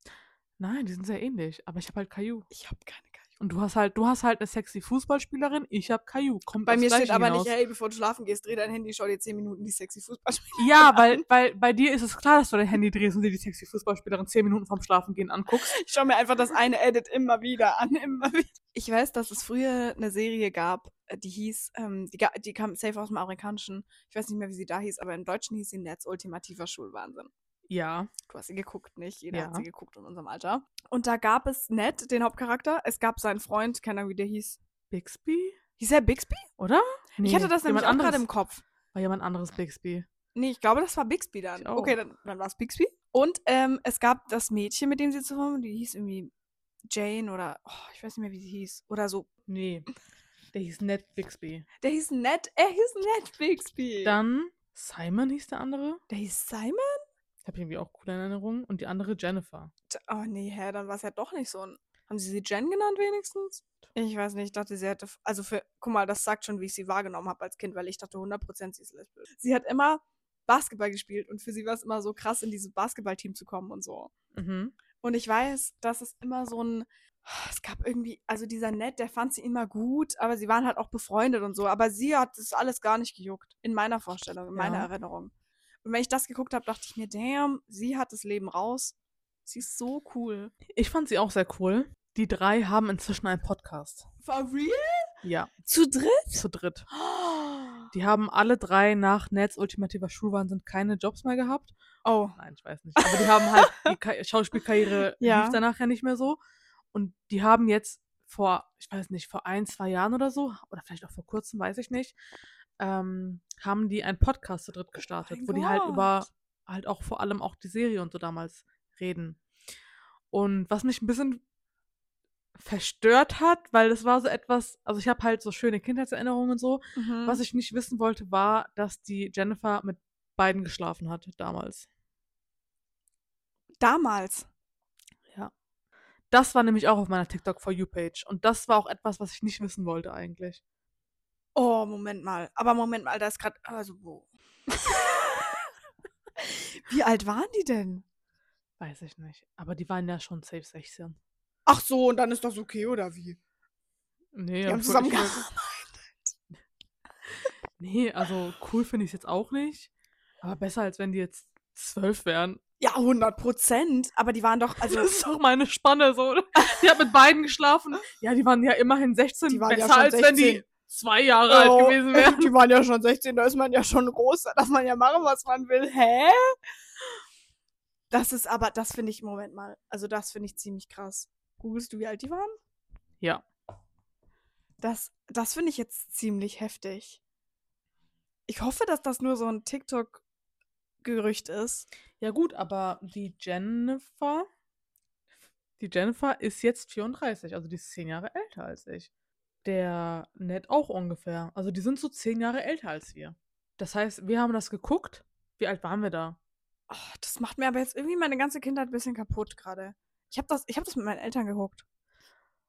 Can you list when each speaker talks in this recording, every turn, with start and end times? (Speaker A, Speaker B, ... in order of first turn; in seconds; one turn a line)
Speaker A: 0.6-2.5
Speaker B: 2.5-3.3
Speaker A: 3.4-7.5
Speaker B: 6.7-11.2
Speaker A: 10.6-15.7
Speaker B: 15.7-27.3
Speaker A: 27.7-28.1
Speaker B: 28.3-34.6
Speaker A: 29.3-29.6
Speaker A: 34.9-35.6
Speaker B: 35.8-36.5
Speaker A: 36.6-38.2
Speaker B: 37.2-38.6
Speaker A: 38.9-40.0
Speaker B: 40.3-46.3
Speaker A: 41.6-42.0
Speaker B: 46.9-49.3
Speaker A: 49.5-49.9
Speaker A: 50.5-51.6
Speaker B: 51.8-54.2
Speaker A: 54.0-56.0
Speaker B: 56.1-57.0
Speaker A: 57.4-59.7
Speaker B: 59.9-74.1
Speaker A: 74.3-74.7
Speaker B: 75.0-85.3
Speaker A: 84.5-84.9
Speaker B: 85.8-90.5
Speaker A: 90.7-94.0
Speaker B: 94.2-95.1
Speaker A: 95.2-95.7
Speaker B: 95.7-96.4
Speaker A: 96.3-96.8
Speaker B: 96.9-97.9
Speaker A: 97.9-101.7
Speaker B: 102.0-102.4
Speaker A: 102.4-106.4
Speaker B: 103.0-103.9
Speaker B: 105.2-105.6
Speaker A: 106.9-112.1
Speaker A: 112.8-119.4
Speaker B: 115.0-116.2
Speaker A: 120.3-121.4
Speaker A: 122.5-131.8
Speaker B: 127.0-127.4
Speaker B: 133.8-134.5
Speaker A: 136.3-140.6
Speaker B: 141.5-145.4
Speaker B: 146.4-148.0
Speaker A: 148.8-151.2
Speaker B: 151.7-153.4
Speaker A: 154.3-155.4
Speaker B: 154.7-156.3
Speaker A: 157.8-159.9
Speaker A: 160.4-162.6
Speaker B: 162.8-165.1
Speaker A: 164.8-172.5
Speaker B: 169.5-170.7
Speaker B: 171.5-176.5
Speaker B: 178.1-182.6
Speaker B: 184.8-187.2
Speaker B: 188.5-190.2
Speaker B: 191.0-191.9
Speaker A: 192.2-194.5
Speaker A: 195.8-199.1
Speaker A: 199.6-206.4
Speaker B: 206.9-211.8